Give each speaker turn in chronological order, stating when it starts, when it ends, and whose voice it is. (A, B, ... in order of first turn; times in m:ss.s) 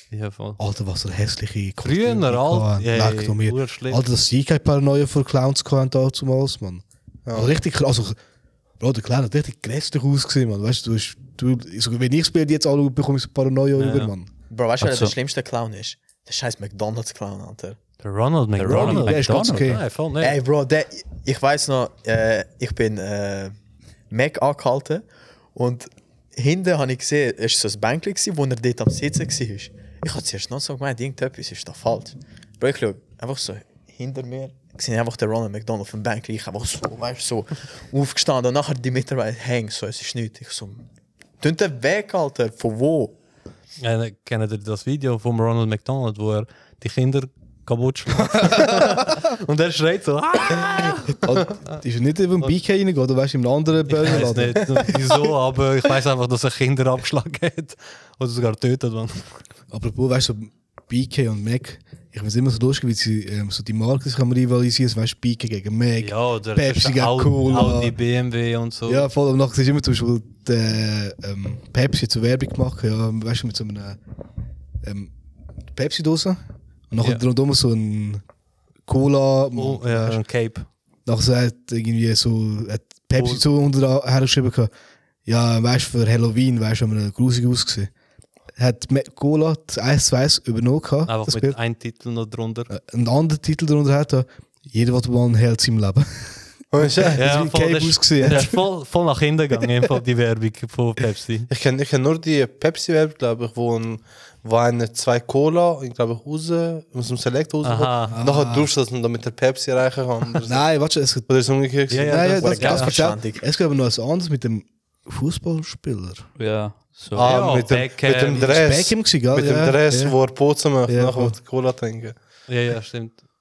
0:00.1-0:00.6 A
0:00.6-0:08.2 B
0:01.8-0:04.1 A
0:07.3-0:07.6 C
0:08.8-0:14.3 B
0:13.8-0:14.1 A
0:14.5-0:17.8 D
0:14.8-0:15.1 E
0:18.0-0:20.4 A
0:18.6-0:19.8 E
0:18.7-0:19.8 B
0:20.2-0:23.6 D
0:24.1-0:40.8 D
0:41.4-0:43.2 D
0:43.8-0:51.6 A
0:51.1-0:55.1 B
0:53.9-0:59.4 A
0:59.7-1:08.0 B
1:06.0-1:09.1 A
1:08.9-1:14.0 B
1:14.8-1:15.1 B
1:15.7-1:18.2 B
1:18.9-1:20.2 B
1:19.6-1:20.7 A
1:21.1-1:24.7 B
1:23.2-1:23.4 A
1:25.2-1:27.9 B
1:28.6-1:31.6 B
1:31.1-1:32.7 A
1:32.7-1:38.6 B
1:36.7-1:37.2 C
1:37.2-1:41.5 A
1:41.5-1:50.7 C
1:47.6-1:48.2 A
1:48.1-1:48.7 B
1:50.4-1:51.3 B
1:51.3-1:52.3 C
1:51.9-1:56.3 B
1:51.9-1:53.0 A
1:52.4-1:53.4 D
1:56.4-1:57.5 E
1:57.2-1:58.6 A
1:57.2-2:02.2 C
1:58.4-2:00.2 B
2:00.9-2:01.4 B
2:02.5-2:03.2 A